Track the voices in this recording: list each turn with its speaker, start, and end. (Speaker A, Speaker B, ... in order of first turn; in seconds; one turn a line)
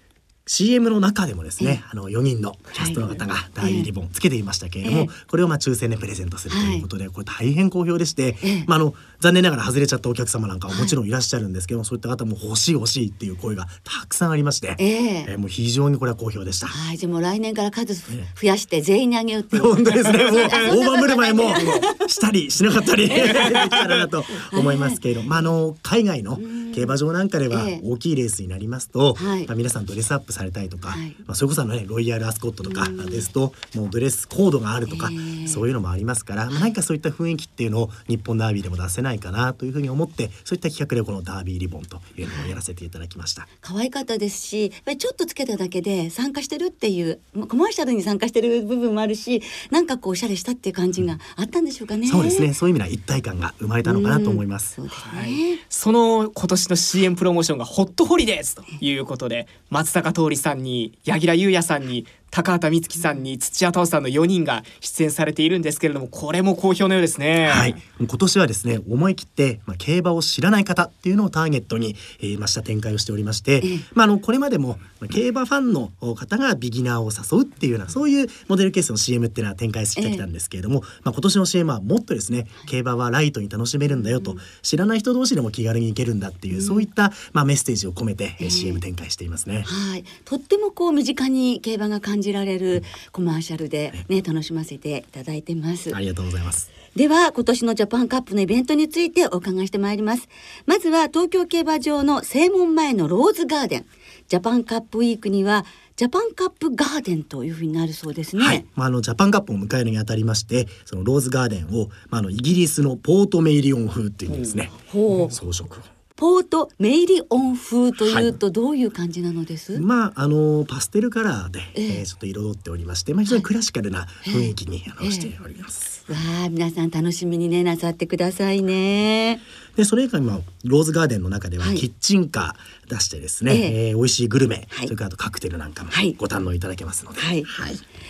Speaker A: 0.5-16.8
Speaker B: 2.8-3.0
Speaker B: 3.6-3.9
Speaker B: 4.8-5.1
Speaker B: 6.5-6.9
Speaker B: 8.4-8.7
Speaker B: 14.8-15.3
Speaker B: 16.7-22.0
Speaker A: 19.5-43.5
Speaker B: 23.0-23.8
Speaker C: 23.4-23.9
Speaker B: 24.4-25.0
Speaker B: 26.4-26.9
Speaker B: 27.5-27.8
Speaker B: 29.2-29.5
Speaker B: 30.9-31.2
Speaker B: 32.7-33.2
Speaker B: 34.9-35.6
Speaker B: 42.2-42.5
Speaker B: 43.6-52.5
Speaker A: 52.1-54.7
Speaker B: 53.9-55.6
Speaker C: 54.9-67.8
Speaker A: 67.4-89.7
Speaker B: 80.0-80.2
Speaker B: 86.5-86.9
Speaker B: 88.4-88.8
Speaker B: 89.7-96.0
Speaker A: 95.9-96.7
Speaker B: 96.9-108.6
Speaker A: 108.4-114.8
Speaker C: 114.3-114.5
Speaker B: 114.9-115.3
Speaker A: 115.3-115.9
Speaker B: 116.2-119.8
Speaker A: 118.1-118.4
Speaker A: 119.8-126.1
Speaker B: 121.8-122.0
Speaker B: 124.2-125.3
Speaker B: 126.1-129.4
Speaker A: 129.8-137.8
Speaker B: 133.5-133.8
Speaker B: 135.9-136.2
Speaker B: 137.2-137.5